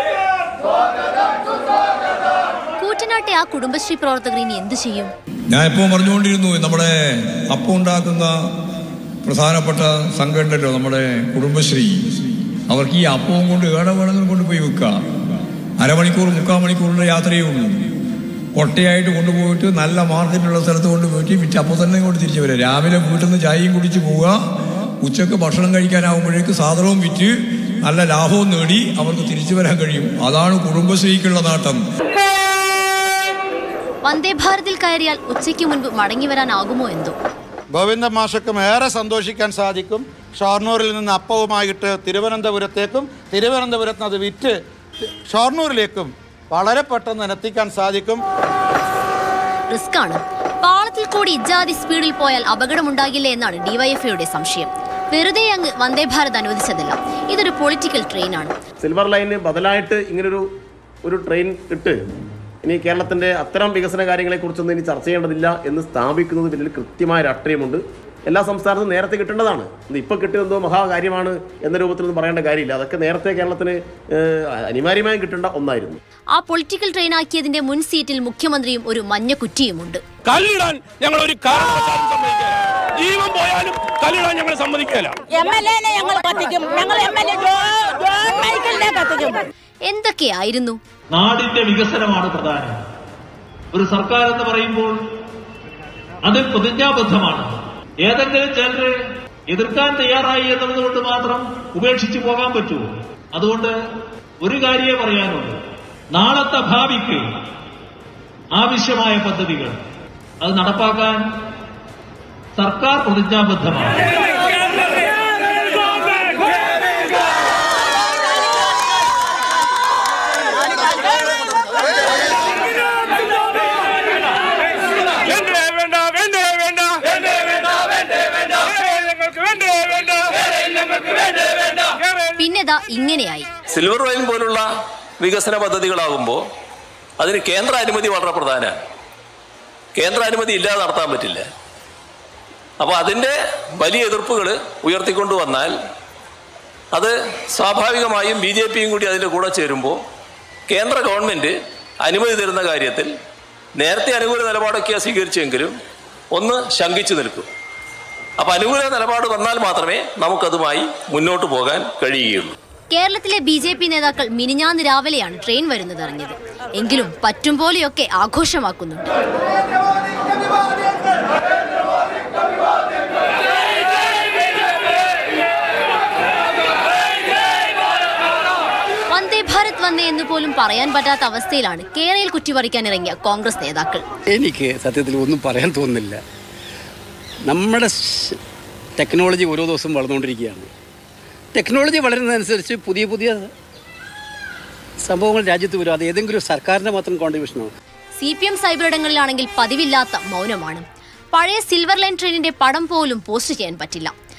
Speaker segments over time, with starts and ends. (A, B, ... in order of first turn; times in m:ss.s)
0:02.8-0:05.1 A
0:05.5-0:08.4 B
0:09.2-0:15.0 B
0:15.8-0:17.8 B
0:18.6-0:24.4 B
0:25.0-0:31.8 B
0:34.0-0:37.2 A
0:37.7-0:44.5 C
0:45.3-0:48.2 C
0:49.7-0:58.5 A
0:58.8-1:00.5 D
1:01.0-1:02.0 D
1:02.6-1:16.0 D
1:16.3-1:20.0 A
1:20.3-1:25.1 E
1:25.3-1:29.4 F
1:29.8-1:30.8 A
1:31.1-1:32.8 G
1:33.7-1:35.0 G
1:36.2-1:38.9 G
1:39.5-1:43.7 G
1:44.4-1:45.6 G
1:46.1-1:47.3 G
1:48.5-1:49.8 G
1:50.4-1:51.3 G
1:52.6-1:54.0 G
2:05.3-2:06.9 E
2:08.8-2:10.2 E
2:12.4-2:13.5 A
2:13.7-2:14.6 H
2:15.2-2:16.4 H
2:17.2-2:18.8 H
2:20.0-2:21.4 H
2:22.8-2:25.7 H
2:26.9-2:30.0 H
2:30.7-2:33.1 H
2:33.8-2:35.8 H
2:36.3-2:37.5 H
2:38.4-2:42.6 H
2:42.9-2:49.1 A
2:59.1-3:04.0 A
3:04.3-3:06.2 I
3:07.5-3:08.4 I
3:09.0-3:10.7 I
3:11.6-3:13.5 I
3:15.0-3:17.7 I
3:18.2-3:24.1 A